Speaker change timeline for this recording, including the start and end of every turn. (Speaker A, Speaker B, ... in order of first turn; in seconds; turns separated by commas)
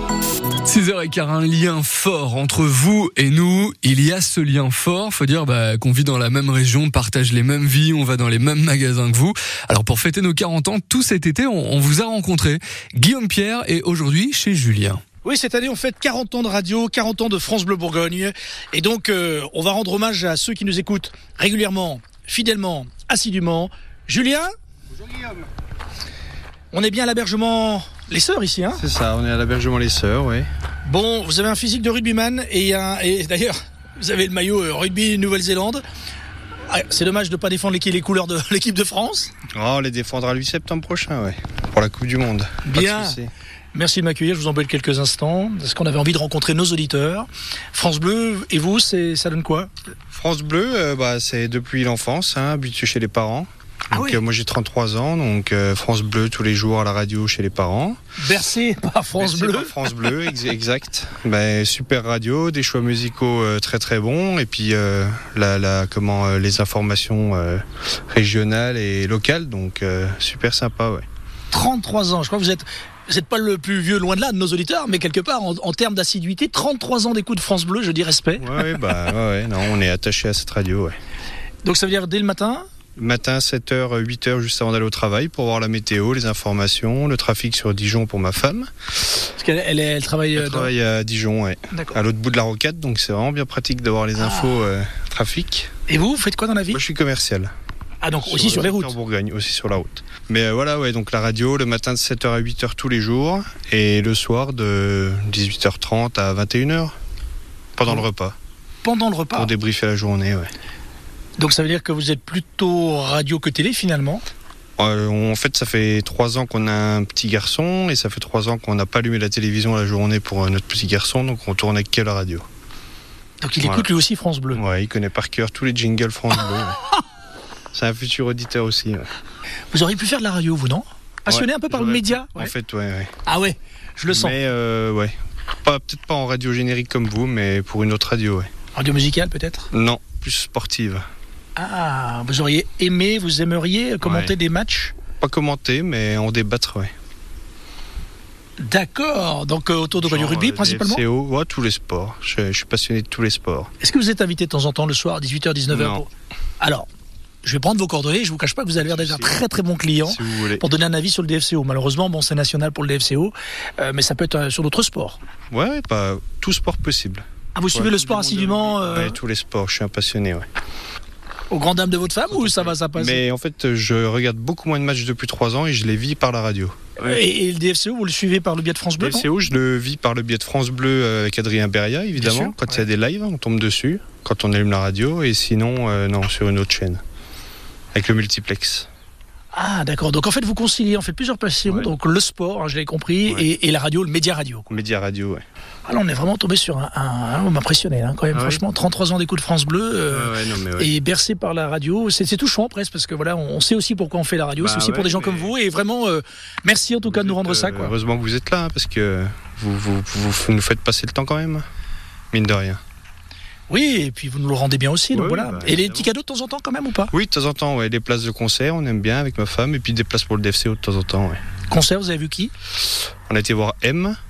Speaker A: 0.7-15.0, Speaker B: 15.2-24.5, Speaker B: 26.7-28.8, Speaker C: 28.8-30.5, Speaker B: 30.9-35.8, Speaker B: 36.7-39.3, Speaker C: 39.5-43.3, Speaker B: 42.6-43.2, Speaker B: 43.7-49.7, Speaker C: 50.1-58.0, Speaker B: 53.9-54.2, Speaker B: 58.2-60.2, Speaker C: 59.2-71.1, Speaker B: 71.5-78.8, Speaker C: 78.4-81.0, Speaker B: 81.6-82.7, Speaker C: 83.0-88.7, Speaker B: 89.4-90.7, Speaker C: 90.3-95.7, Speaker B: 91.7-92.0, Speaker B: 94.2-94.7, Speaker B: 95.9-96.8, Speaker C: 96.7-97.5, Speaker B: 98.0-99.0, Speaker C: 98.2-107.0, Speaker C: 107.8-108.4, Speaker B: 108.8-109.5, Speaker C: 109.3-110.5, Speaker B: 111.4-114.2, Speaker C: 114.8-122.5, Speaker B: 123.4-124.6, Speaker C: 124.5-126.8, Speaker C: 127.7-129.1, Speaker B: 129.7-132.5, Speaker C: 131.3-133.1, Speaker B: 133.3-134.4, Speaker C: 134.1-138.5, Speaker B: 138.8-139.7, Speaker C: 139.7-141.0, Speaker B: 141.6-145.0, Speaker C: 144.0-144.3, Speaker C: 145.2-146.9, Speaker B: 148.6-151.0, Speaker C: 150.0-153.7, Speaker B: 153.8-156.1, Speaker C: 155.7-156.0, Speaker B: 156.6-156.9, Speaker B: 157.4-165.2, Speaker C: 158.8-159.4, Speaker C: 160.1-160.7, Speaker C: 165.5-170.5, Speaker B: 167.6-169.2, Speaker B: 171.5-173.2, Speaker C: 172.3-177.2, Speaker B: 177.0-179.3, Speaker C: 179.0-187.0, Speaker B: 182.2-182.8, Speaker C: 187.9-188.9, Speaker B: 189.5-194.7, Speaker C: 194.7-195.4, Speaker B: 195.9-207.9, Speaker C: 198.3-198.6, Speaker C: 200.1-200.9, Speaker C: 204.6-205.5, Speaker C: 207.1-211.7, Speaker C: 212.3-212.8, Speaker B: 213.7-217.1, Speaker C: 215.1-216.1, Speaker C: 217.1-221.4, Speaker B: 221.7-222.5, Speaker C: 223.3-224.2